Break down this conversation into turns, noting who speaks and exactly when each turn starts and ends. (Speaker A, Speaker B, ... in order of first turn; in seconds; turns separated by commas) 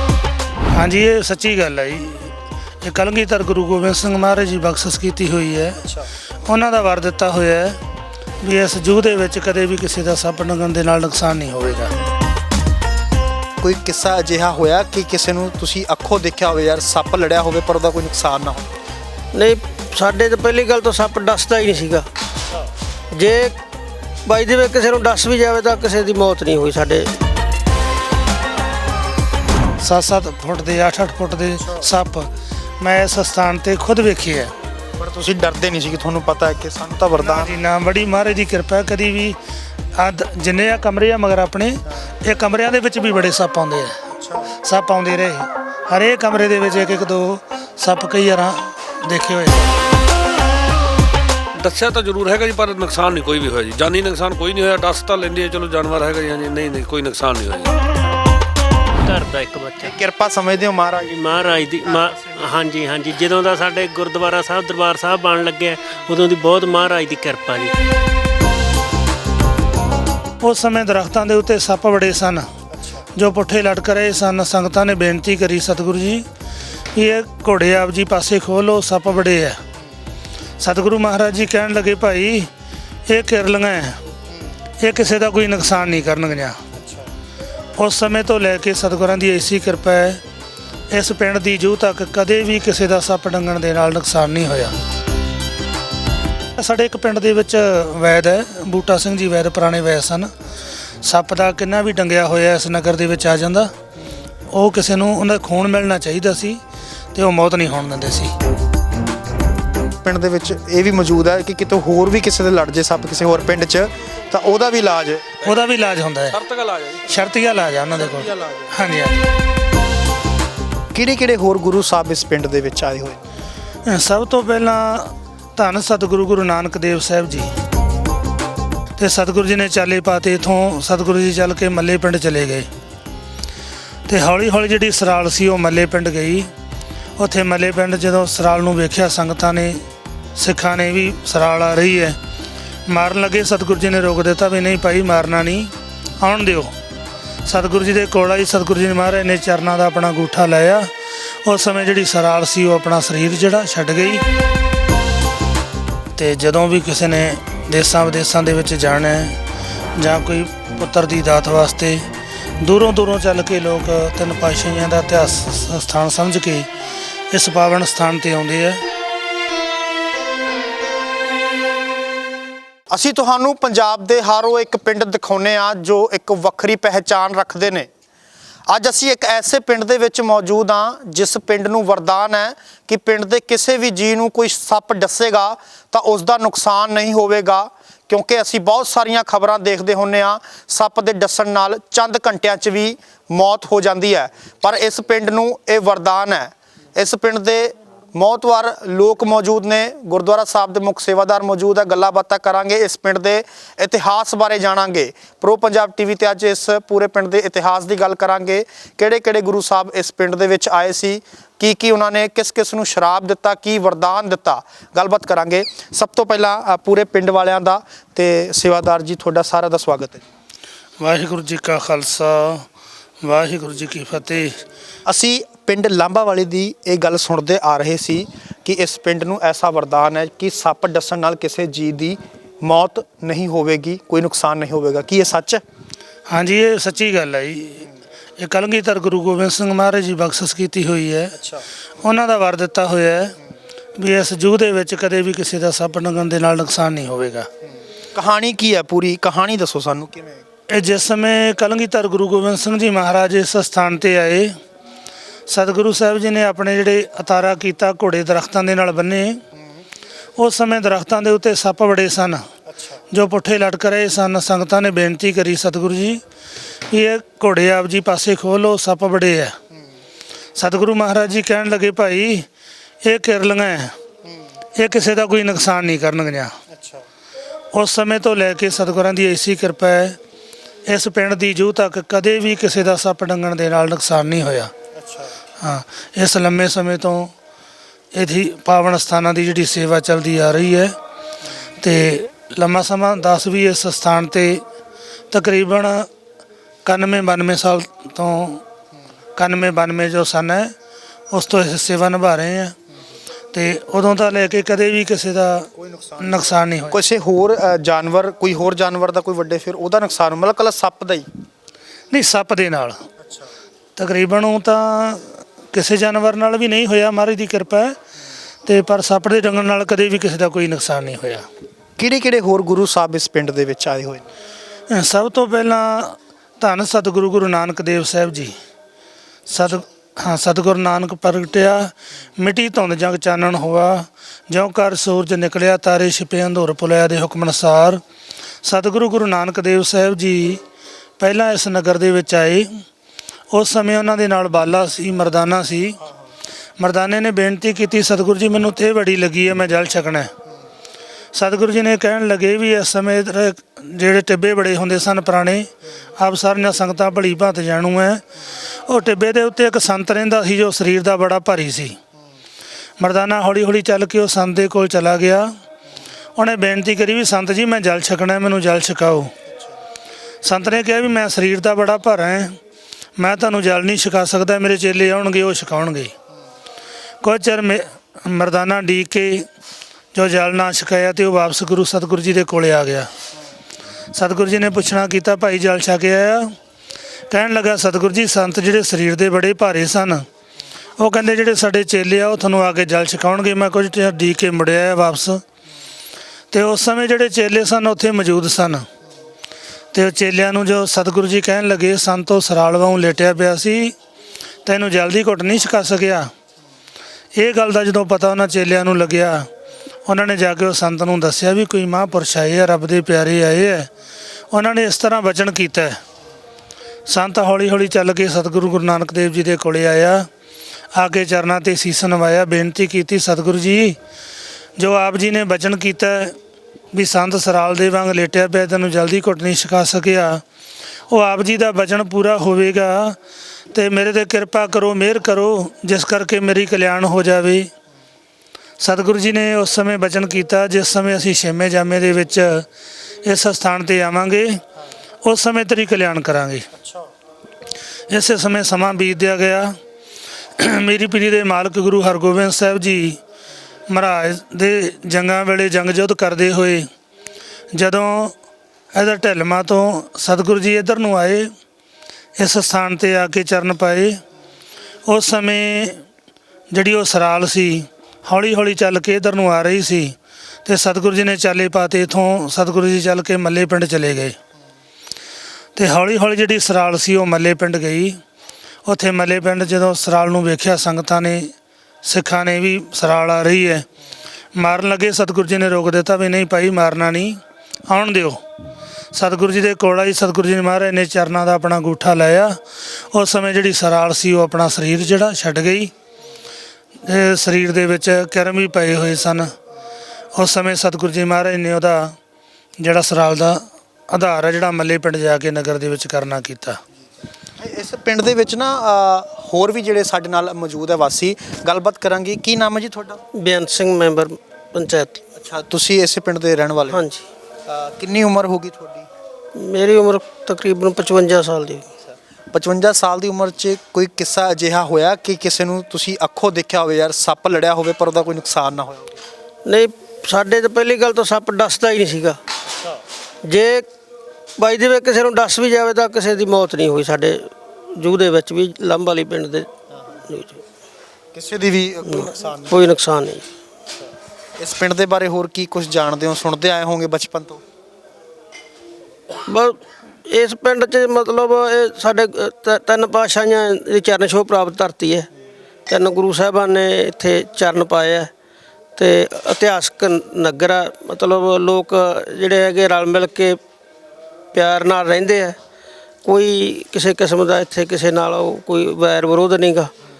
Speaker A: 0.7-2.3, Speaker A: 2.8-5.8, Speaker A: 6.4-7.8, Speaker A: 8.4-11.9, Speaker B: 13.6-18.7, Speaker C: 19.3-22.1, Speaker C: 23.1-23.6, Speaker C: 24.2-27.1, Speaker A: 29.8-34.5, Speaker B: 35.0-37.5, Speaker A: 37.1-39.4, Speaker A: 39.9-43.9, Speaker B: 44.2-44.5, Speaker A: 44.5-49.7, Speaker D: 51.6-57.7, Speaker E: 59.0-59.9, Speaker B: 59.8-61.2, Speaker E: 61.1-67.7, Speaker B: 61.8-62.3, Speaker A: 70.4-72.5, Speaker A: 73.1-76.2, Speaker A: 76.9-79.6, Speaker A: 80.6-82.5, Speaker A: 83.1-84.0, Speaker A: 84.8-86.6, Speaker B: 86.8-87.1, Speaker A: 87.8-90.2, Speaker A: 90.9-94.7, Speaker A: 96.6-100.3, Speaker A: 101.0-103.7, Speaker A: 104.5-106.6, Speaker A: 107.1-108.3, Speaker B: 110.0-115.3, Speaker D: 115.4-115.7, Speaker A: 115.4-116.4, Speaker D: 116.3-117.2, Speaker A: 117.1-119.3, Speaker B: 118.0-118.7, Speaker B: 120.9-123.2, Speaker A: 123.8-127.5, Speaker A: 129.0-132.7, Speaker A: 134.1-136.5, Speaker A: 137.2-139.8, Speaker A: 140.3-142.2, Speaker A: 142.9-146.7, Speaker A: 147.4-154.2, Speaker A: 156.2-159.4, Speaker A: 160.0-162.1, Speaker A: 162.6-166.7, Speaker A: 167.3-168.8, Speaker B: 172.9-177.9, Speaker B: 178.7-220.2, Speaker A: 221.0-222.7, Speaker A: 223.2-224.6, Speaker B: 225.1-235.6, Speaker A: 236.3-241.4, Speaker A: 242.0-243.3, Speaker A: 244.0-247.5, Speaker B: 248.1-250.4, Speaker A: 250.7-254.6, Speaker A: 255.5-259.4, Speaker A: 260.4-262.4, Speaker A: 263.1-266.2, Speaker A: 266.9-269.6, Speaker A: 270.6-272.5, Speaker A: 273.0-273.9, Speaker A: 274.8-276.5, Speaker B: 276.7-277.0, Speaker A: 277.7-280.2, Speaker A: 280.9-284.7, Speaker B: 285.0-285.3, Speaker A: 285.6-287.3, Speaker A: 288.1-290.9, Speaker A: 291.8-294.6, Speaker A: 295.3-296.1, Speaker A: 296.8-298.6, Speaker A: 299.4-300.7, Speaker A: 301.3-302.8, Speaker A: 303.5-307.0, Speaker B: 305.8-311.3, Speaker A: 312.1-313.0, Speaker A: 313.9-318.0, Speaker A: 318.6-321.4, Speaker B: 322.0-324.2, Speaker A: 324.9-328.5, Speaker A: 329.5-338.0, Speaker A: 338.6-340.6, Speaker A: 341.2-342.8, Speaker A: 343.5-346.0, Speaker A: 346.8-350.3, Speaker A: 351.3-362.0, Speaker A: 363.0-365.5, Speaker A: 366.4-369.3, Speaker A: 370.4-372.6, Speaker A: 373.2-376.1, Speaker A: 377.2-379.4, Speaker A: 380.1-383.1, Speaker A: 384.1-386.6, Speaker A: 387.3-390.2, Speaker A: 391.0-395.4, Speaker A: 396.5-398.9, Speaker A: 399.9-403.9, Speaker A: 404.6-406.3, Speaker A: 407.3-409.5, Speaker A: 410.1-413.9, Speaker A: 414.5-416.0, Speaker A: 417.1-420.3, Speaker A: 420.9-424.0, Speaker A: 424.8-426.4, Speaker A: 426.9-430.4, Speaker A: 431.1-433.2, Speaker A: 433.7-437.7, Speaker A: 438.8-442.7, Speaker A: 443.2-444.6, Speaker A: 445.2-446.7, Speaker A: 448.1-449.8, Speaker A: 450.6-453.2, Speaker A: 453.9-456.9, Speaker A: 457.7-458.4, Speaker A: 458.9-461.5, Speaker A: 462.4-464.2, Speaker A: 465.1-466.0, Speaker A: 466.7-474.4, Speaker A: 475.8-478.2, Speaker A: 478.8-481.5, Speaker A: 482.0-483.9, Speaker A: 484.5-488.4, Speaker A: 489.1-495.9, Speaker A: 497.0-499.5, Speaker A: 500.3-502.1, Speaker A: 502.8-506.8, Speaker B: 507.6-513.2, Speaker C: 513.3-515.3, Speaker B: 515.4-517.0, Speaker C: 516.9-517.3, Speaker B: 517.7-519.1, Speaker C: 519.5-521.9, Speaker B: 522.5-529.2, Speaker C: 529.6-532.4, Speaker C: 533.4-533.9, Speaker C: 534.5-539.7, Speaker C: 540.2-540.6, Speaker B: 541.3-542.9, Speaker C: 542.0-543.5, Speaker B: 544.6-547.6, Speaker C: 549.3-555.3, Speaker C: 555.9-558.3, Speaker C: 559.0-563.6, Speaker C: 564.5-565.6, Speaker C: 566.2-569.9